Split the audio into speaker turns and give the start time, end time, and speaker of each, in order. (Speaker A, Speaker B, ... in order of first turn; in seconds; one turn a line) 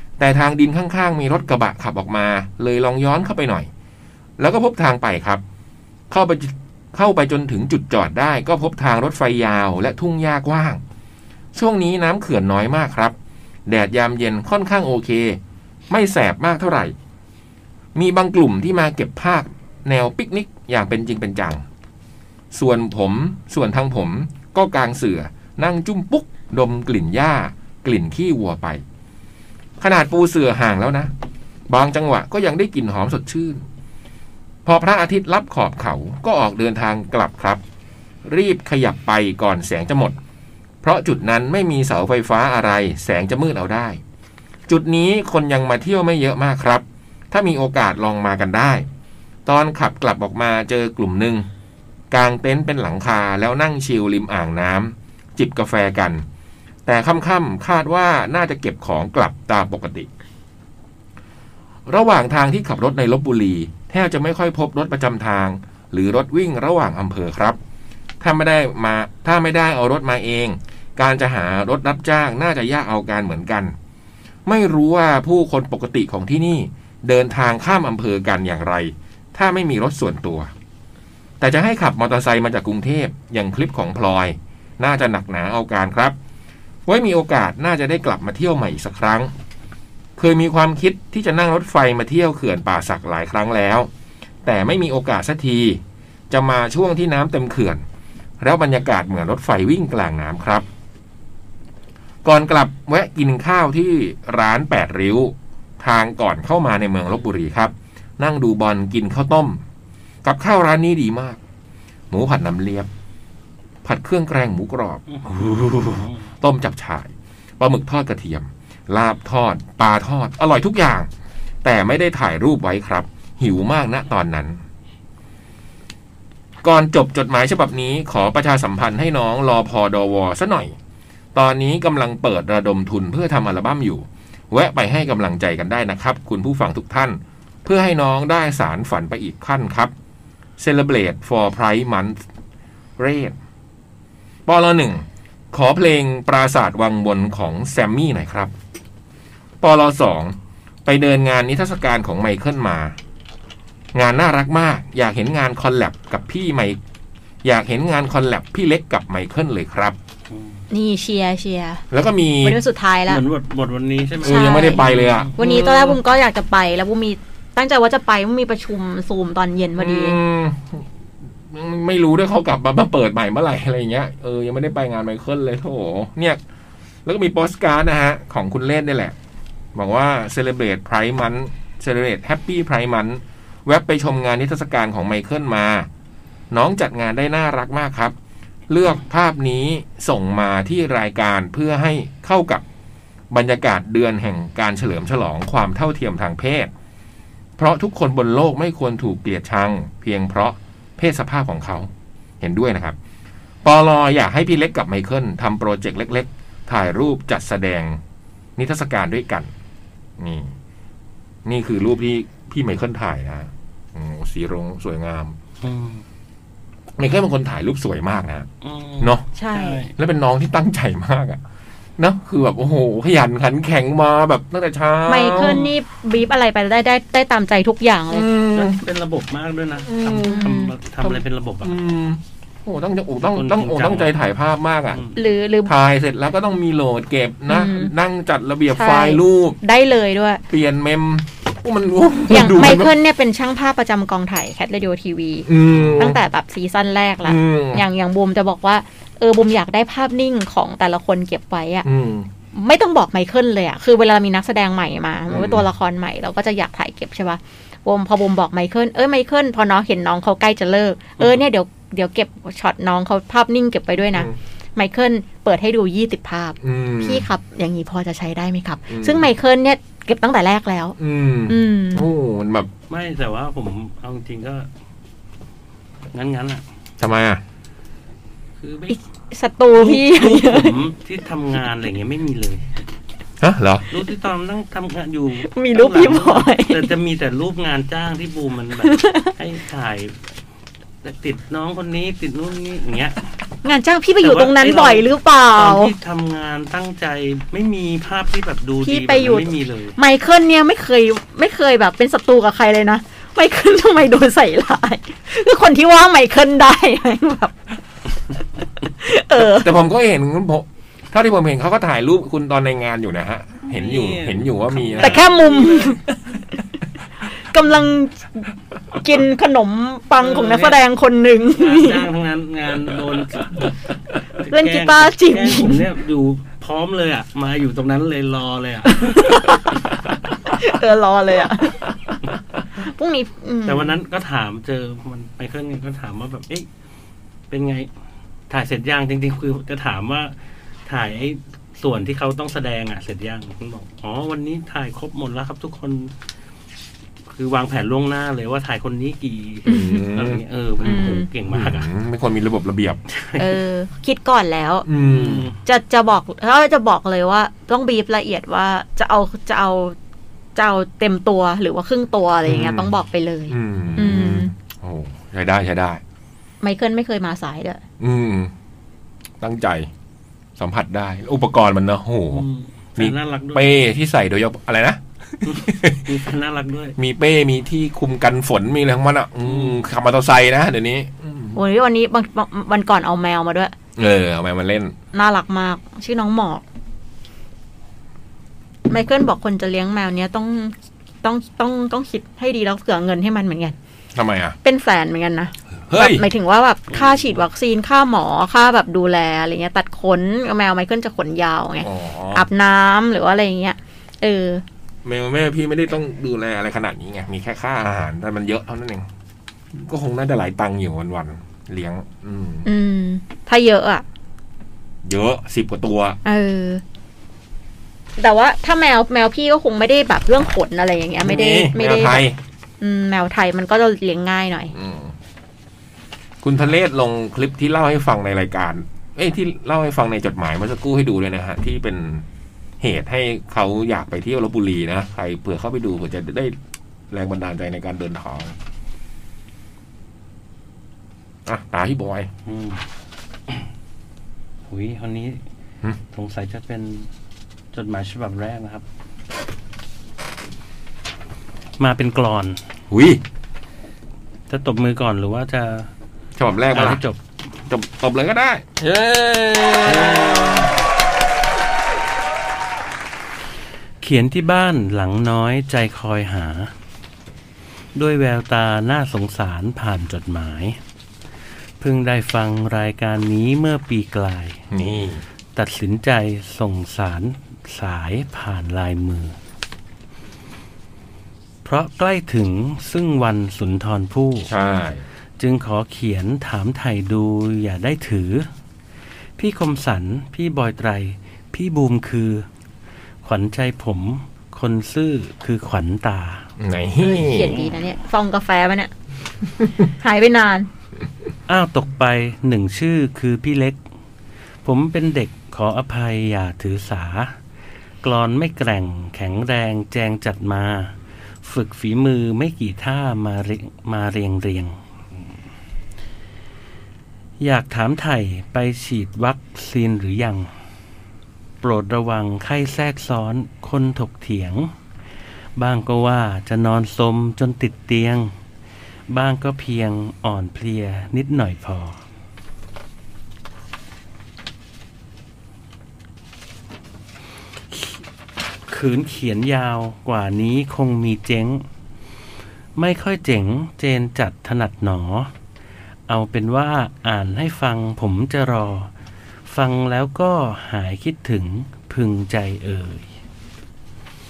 Speaker A: 0.2-3.7
Speaker A: 4.4-5.4
Speaker A: 6.1-10.8
Speaker A: 11.5-13.2
Speaker A: 13.7-15.4
Speaker A: 15.9-16.9
Speaker A: 17.9-21.6
Speaker A: 22.5-28.8
Speaker A: 29.8-31.1
Speaker A: 31.7-33.6
Speaker A: 34.6-37.6
Speaker A: 38.2-40.2
Speaker A: 40.8-44.0
Speaker A: 44.7-48.9
Speaker A: 49.5-51.5
Speaker A: 52.1-56.2
Speaker A: 56.9-60.1
Speaker A: 61.9-67.6
Speaker A: 68.2-73.7
Speaker A: 74.5-80.5
Speaker A: 81.4-86.2
Speaker A: 86.9-89.3
Speaker A: 90.2-93.9
Speaker A: 94.5-97.8
Speaker A: 98.4-100.7
Speaker A: 102.2-109.6
Speaker A: 110.2-111.4
Speaker A: 112.1-112.9
Speaker A: 113.8-121.1
Speaker B: 115.1-116.3
Speaker A: 121.6-124.6
Speaker A: 126.6-130.8
Speaker A: 131.3-139.9
Speaker A: 140.6-142.2
Speaker A: 143.0-143.4
Speaker A: 144.5-148.5
Speaker A: 149.6-153.0
Speaker A: 153.9-156.8
Speaker A: 157.4-160.0
Speaker B: 160.3-160.6
Speaker C: 160.7-161.8
Speaker A: 161.9-162.6
Speaker C: 162.4-163.2
Speaker B: 163.1-165.9
Speaker A: 164.2-165.7
Speaker C: 164.2-164.8
Speaker C: 165.4-170.2
Speaker A: 169.8-170.9
Speaker A: 171.4-176.4
Speaker A: 177.1-179.2
Speaker A: 179.8-185.9
Speaker A: 186.5-188.2
Speaker A: 188.7-192.6
Speaker A: 193.3-196.7
Speaker A: 197.6-201.9
Speaker A: 202.4-203.0
Speaker A: 203.6-208.0
Speaker A: 208.6-209.5
Speaker A: 210.2-210.5
Speaker A: 211.4-215.4
Speaker B: 215.6-216.0
Speaker A: 217.0-218.5
Speaker B: 218.6-219.9
Speaker A: 219.0-219.2
Speaker C: 219.3-219.9
Speaker A: 220.0-221.4
Speaker A: 222.0-225.7
Speaker C: 225.1-228.3
Speaker A: 228.1-228.8
Speaker B: 228.5-231.8
Speaker A: 229.8-235.0
Speaker C: 230.2-230.7
Speaker B: 233.3-234.1
Speaker C: 235.2-235.7
Speaker A: 235.7-239.6
Speaker C: 237.5-237.9
Speaker C: 238.7-240.4
Speaker A: 240.5-242.9
Speaker C: 242.3-251.9
Speaker A: 245.5-246.2
Speaker A: 247.2-247.8
Speaker A: 251.8-252.3
Speaker C: 252.6-271.0
Speaker A: 255.3-255.6
Speaker A: 266.6-267.3
Speaker A: 268.9-269.3
Speaker A: 271.0-272.7
Speaker C: 271.5-272.1
Speaker B: 272.9-274.7
Speaker B: 276.1-276.6
Speaker A: 277.0-277.4
Speaker B: 278.6-279.0
Speaker C: 278.9-280.8
Speaker B: 279.8-282.8
Speaker A: 283.4-283.9
Speaker B: 283.9-290.2
Speaker C: 285.5-286.9
Speaker C: 288.8-289.3
Speaker B: 291.0-293.2
Speaker C: 293.6-295.9
Speaker B: 294.2-300.0
Speaker C: 298.9-307.5
Speaker C: 308.9-309.7
Speaker A: 309.4-315.2
Speaker B: 313.7-316.0
Speaker C: 315.0-316.0
Speaker C: 317.4-318.5
Speaker C: 319.0-322.1
Speaker B: 320.2-320.8
Speaker B: 321.6-323.7
Speaker B: 324.3-329.3
Speaker C: 324.5-325.8
Speaker C: 329.0-329.8
Speaker C: 330.5-331.9
Speaker C: 332.8-334.0
Speaker B: 333.7-336.7
Speaker B: 337.5-337.9
Speaker B: 338.5-340.4
Speaker B: 340.9-346.1
Speaker B: 347.3-351.9
Speaker C: 349.7-350.1
Speaker A: 349.7-353.0
Speaker C: 350.8-351.3
Speaker B: 353.2-353.5
Speaker C: 353.4-354.9
Speaker A: 354.9-355.5
Speaker B: 355.0-355.6
Speaker C: 355.6-360.0
Speaker C: 360.6-364.5
Speaker A: 362.4-362.9
Speaker A: 363.5-366.0
Speaker C: 366.6-367.8
Speaker A: 368.0-368.5
Speaker A: 369.4-369.9
Speaker A: 370.6-372.5
Speaker B: 372.3-373.7
Speaker A: 373.0-376.1
Speaker B: 375.5-376.9
Speaker A: 377.0-381.6
Speaker B: 379.5-379.8
Speaker C: 381.6-383.7
Speaker A: 384.0-384.9
Speaker C: 385.1-386.6
Speaker C: 388.9-393.8
Speaker A: 394.1-394.6
Speaker C: 394.6-404.6
Speaker A: 395.9-396.3
Speaker A: 401.8-402.5
Speaker A: 405.1-409.1
Speaker A: 409.7-412.7
Speaker C: 412.6-414.1
Speaker A: 415.1-416.2
Speaker C: 416.2-416.8
Speaker C: 418.2-422.2
Speaker A: 421.2-422.4
Speaker C: 422.8-424.7
Speaker A: 424.7-425.1
Speaker A: 426.4-432.2
Speaker A: 432.8-436.6
Speaker A: 437.1-438.6
Speaker A: 441.5-442.3
Speaker B: 442.5-442.8
Speaker B: 444.7-445.4
Speaker B: 446.1-447.1
Speaker B: 447.7-448.9
Speaker B: 451.8-452.6
Speaker A: 452.9-453.2
Speaker B: 454.5-455.9
Speaker A: 456.4-457.0
Speaker B: 456.7-457.2
Speaker A: 457.7-460.7
Speaker B: 459.9-460.7
Speaker B: 464.0-466.7
Speaker B: 467.9-470.8
Speaker B: 471.8-474.6
Speaker A: 474.7-475.2
Speaker B: 475.6-479.4
Speaker B: 481.6-484.5
Speaker A: 484.5-485.1
Speaker B: 485.4-488.5
Speaker B: 489.4-492.5
Speaker B: 493.2-496.5
Speaker A: 496.6-497.6
Speaker C: 497.0-498.9
Speaker C: 499.9-500.7
Speaker B: 501.5-503.8
Speaker B: 504.6-507.4
Speaker B: 508.0-514.8
Speaker B: 517.4-520.5
Speaker B: 521.6-524.7
Speaker B: 525.6-528.3
Speaker B: 529.1-532.0
Speaker B: 537.7-538.0
Speaker B: 538.7-541.6
Speaker B: 542.8-545.3
Speaker B: 546.1-548.9
Speaker B: 549.5-553.1